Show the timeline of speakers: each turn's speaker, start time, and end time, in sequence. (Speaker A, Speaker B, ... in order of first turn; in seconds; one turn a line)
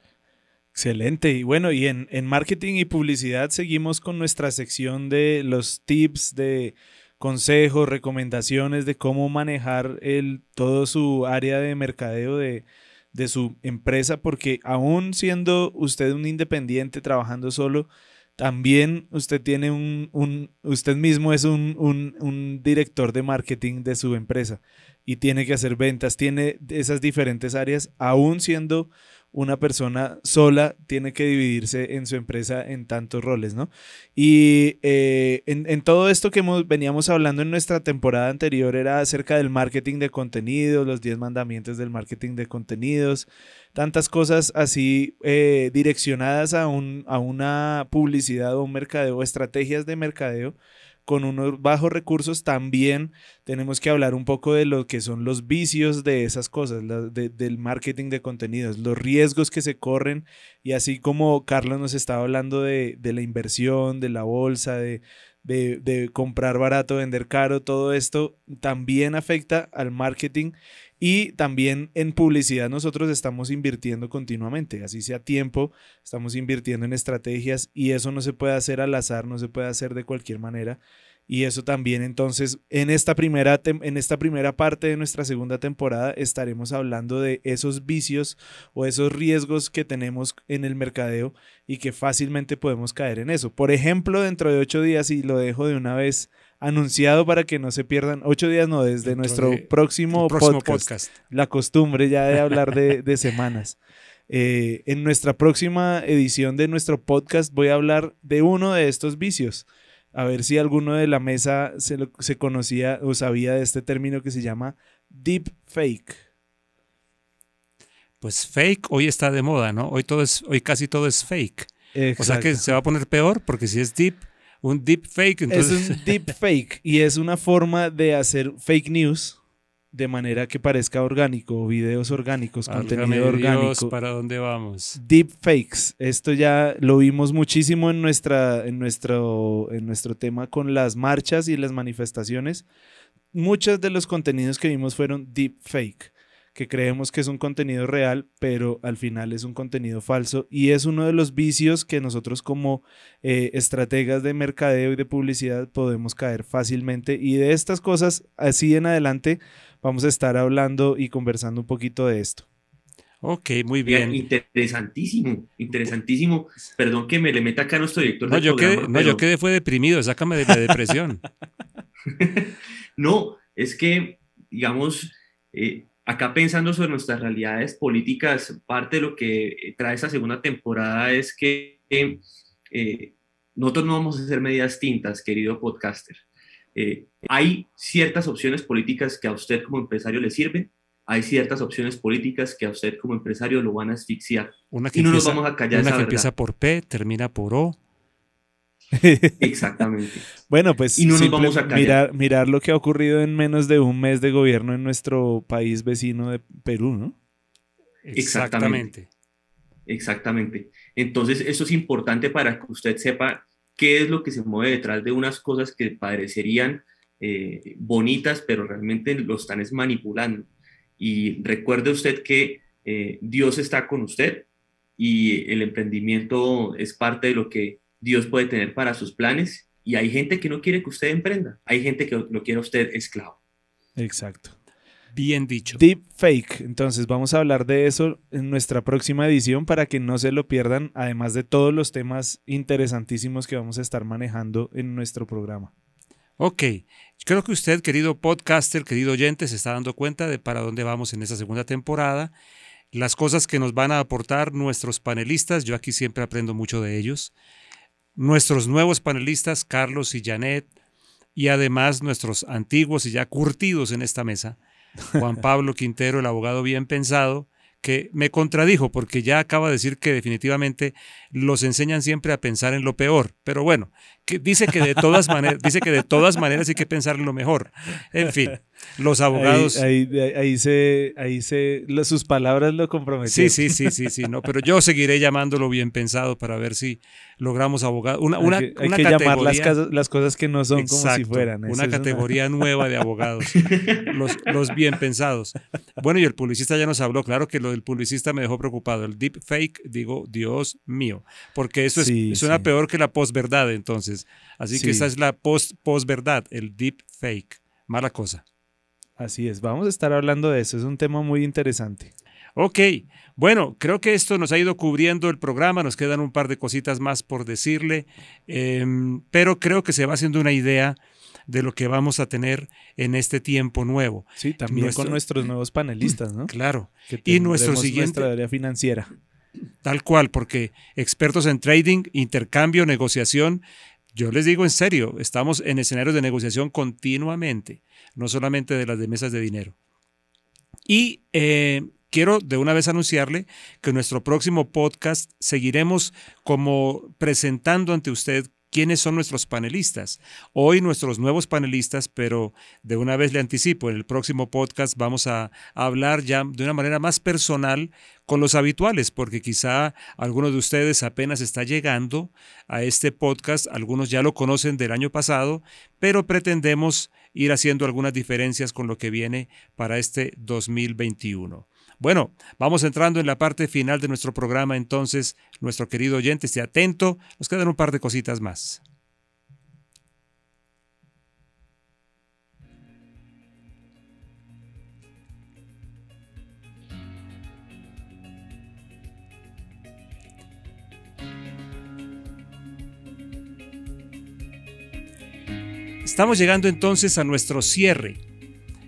Speaker A: 0.8-103.8
Speaker B: 99.0-101.1
Speaker A: 104.3-116.2
Speaker B: 118.2-126.0
Speaker A: 121.9-122.8
Speaker A: 125.5-129.4
Speaker A: 129.9-133.9
Speaker B: 132.7-135.0
Speaker A: 135.0-142.7
Speaker A: 143.3-162.5
Speaker B: 163.2-164.2
Speaker C: 163.9-169.2
Speaker B: 168.2-171.2
Speaker C: 172.1-186.2
Speaker C: 186.8-196.3
Speaker B: 194.7-197.8
Speaker A: 198.9-199.8
Speaker C: 199.4-200.3
Speaker A: 200.5-207.2
Speaker C: 200.9-202.0
Speaker B: 208.1-209.1
Speaker C: 208.2-208.9
Speaker C: 209.9-220.5
Speaker C: 221.0-224.5
Speaker C: 225.0-233.4
Speaker A: 234.0-234.6
Speaker B: 235.1-235.8
Speaker A: 235.7-245.7
Speaker B: 246.4-252.3
Speaker B: 252.9-257.3
Speaker B: 258.2-260.7
Speaker B: 261.4-264.6
Speaker B: 265.1-279.9
Speaker A: 279.3-283.8
Speaker B: 283.3-289.8
Speaker A: 288.4-292.3
Speaker B: 290.7-308.4
Speaker C: 293.6-294.1
Speaker A: 302.0-302.7
Speaker A: 304.7-305.1
Speaker A: 309.2-312.1
Speaker B: 312.6-325.2
Speaker A: 324.4-326.5
Speaker B: 326.5-328.3
Speaker A: 327.1-329.1
Speaker B: 329.8-339.8
Speaker B: 340.9-378.8
Speaker B: 396.1-398.2